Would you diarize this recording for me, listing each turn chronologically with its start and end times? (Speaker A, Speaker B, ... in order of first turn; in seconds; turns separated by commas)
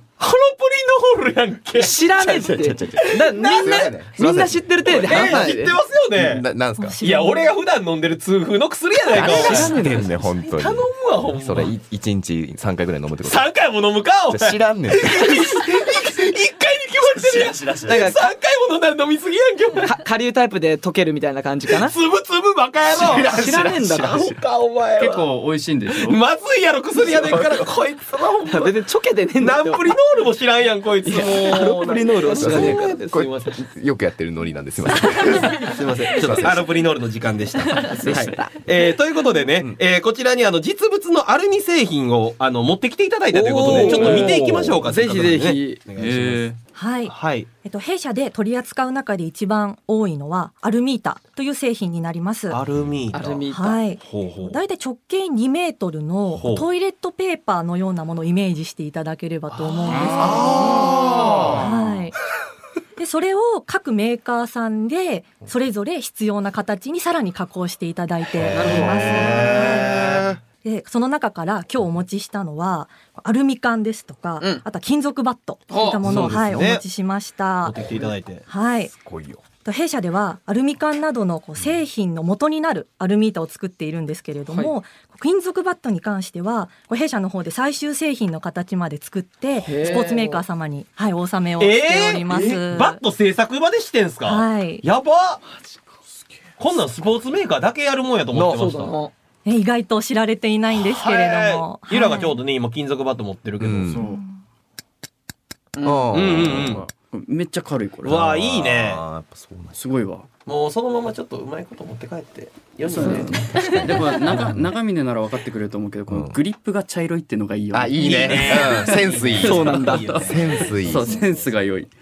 Speaker A: 0.2-2.5, Speaker B: 1.8-5.8, Speaker C: 2.2-5.5, Speaker A: 3.3-3.9, Speaker A: 4.9-6.5, Speaker C: 6.2-7.0, Speaker D: 6.8-7.5, Speaker A: 7.0-9.8, Speaker C: 9.1-13.5, Speaker B: 9.2-10.3, Speaker A: 10.5-11.7, Speaker A: 13.2-19.9, Speaker C: 14.3-16.1, Speaker C: 17.0-18.1, Speaker B: 17.9-18.2, Speaker B: 19.8-21.9, Speaker A: 21.7-23.3, Speaker C: 22.9-24.3, Speaker B: 23.2-24.3, Speaker A: 24.0-25.3, Speaker E: 25.0-26.2, Speaker A: 25.9-28.7, Speaker C: 27.0-27.7, Speaker B: 28.5-29.9, Speaker A: 29.4-33.6, Speaker B: 31.0-33.0, Speaker C: 32.3-36.8, Speaker A: 35.6-46.5, Speaker B: 37.8-38.5, Speaker B: 43.3-45.8, Speaker C: 43.6-44.8, Speaker E: 46.0-46.6, Speaker D: 46.8-52.6, Speaker A: 47.1-47.5, Speaker A: 52.5-53.4, Speaker B: 53.1-53.8, Speaker D: 53.5-60.9, Speaker A: 54.0-54.6, Speaker A: 56.4-56.7, Speaker A: 59.8-61.6, Speaker E: 59.9-60.4, Speaker C: 60.2-61.6, Speaker D: 61.5-62.2, Speaker D: 63.0-77.8, Speaker A: 68.4-70.3, Speaker B: 68.5-69.5, Speaker C: 68.5-70.4, Speaker B: 74.4-74.7, Speaker B: 75.7-76.2, Speaker C: 76.0-76.6, Speaker A: 76.1-76.8, Speaker A: 77.6-78.4, Speaker D: 78.5-78.9, Speaker C: 78.9-79.4, Speaker D: 79.6-93.0, Speaker B: 84.5-84.7, Speaker B: 89.6-90.4, Speaker A: 91.6-95.4, Speaker D: 94.2-94.8, Speaker A: 96.6-99.0, Speaker B: 98.3-99.1, Speaker D: 99.5-102.4, Speaker A: 100.7-104.0, Speaker C: 103.6-104.0, Speaker E: 103.9-104.2, Speaker B: 105.8-106.1, Speaker C: 105.8-106.8, Speaker A: 106.1-106.8, Speaker E: 106.4-108.3, Speaker A: 108.0-109.0, Speaker C: 108.1-109.8, Speaker E: 109.8-110.3, Speaker A: 110.5-113.4, Speaker E: 113.0-121.9, Speaker C: 113.0-114.7, Speaker B: 113.0-113.3, Speaker C: 116.1-116.4, Speaker C: 117.7-121.5, Speaker A: 118.0-120.8, Speaker B: 119.4-120.1